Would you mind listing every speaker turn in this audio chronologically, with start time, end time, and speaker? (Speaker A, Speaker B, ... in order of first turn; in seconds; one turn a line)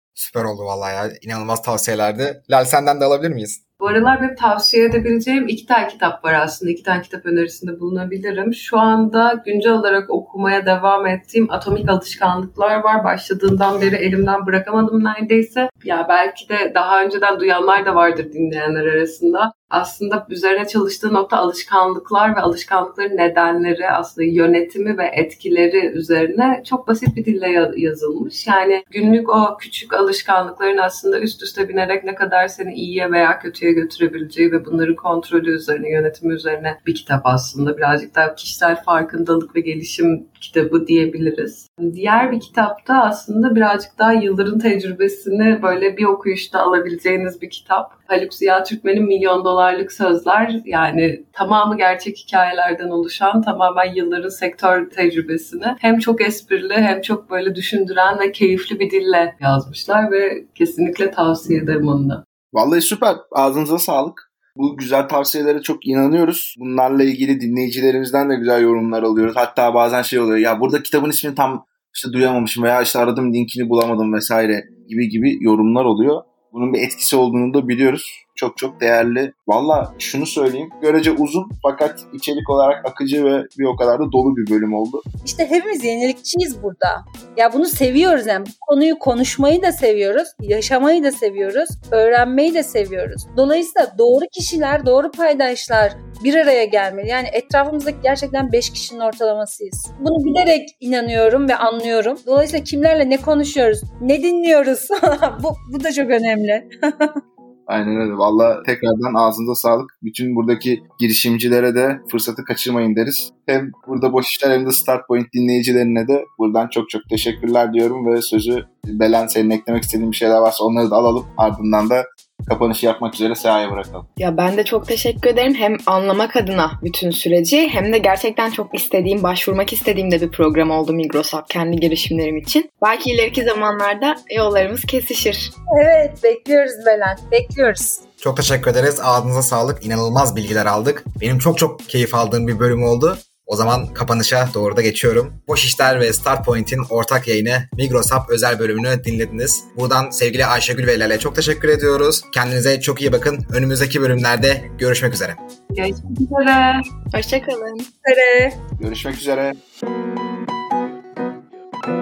Speaker A: 0.1-3.6
Speaker B: 3.8-62.2
Speaker C: 62.5-85.0
Speaker D: 85.2-107.2
Speaker C: 107.7-124.0
Speaker E: 124.2-135.5
Speaker D: 135.7-138.0
Speaker A: 138.2-155.4
Speaker B: 155.7-156.8
Speaker E: 157.1-157.9
Speaker D: 158.0-158.6
Speaker C: 158.8-159.6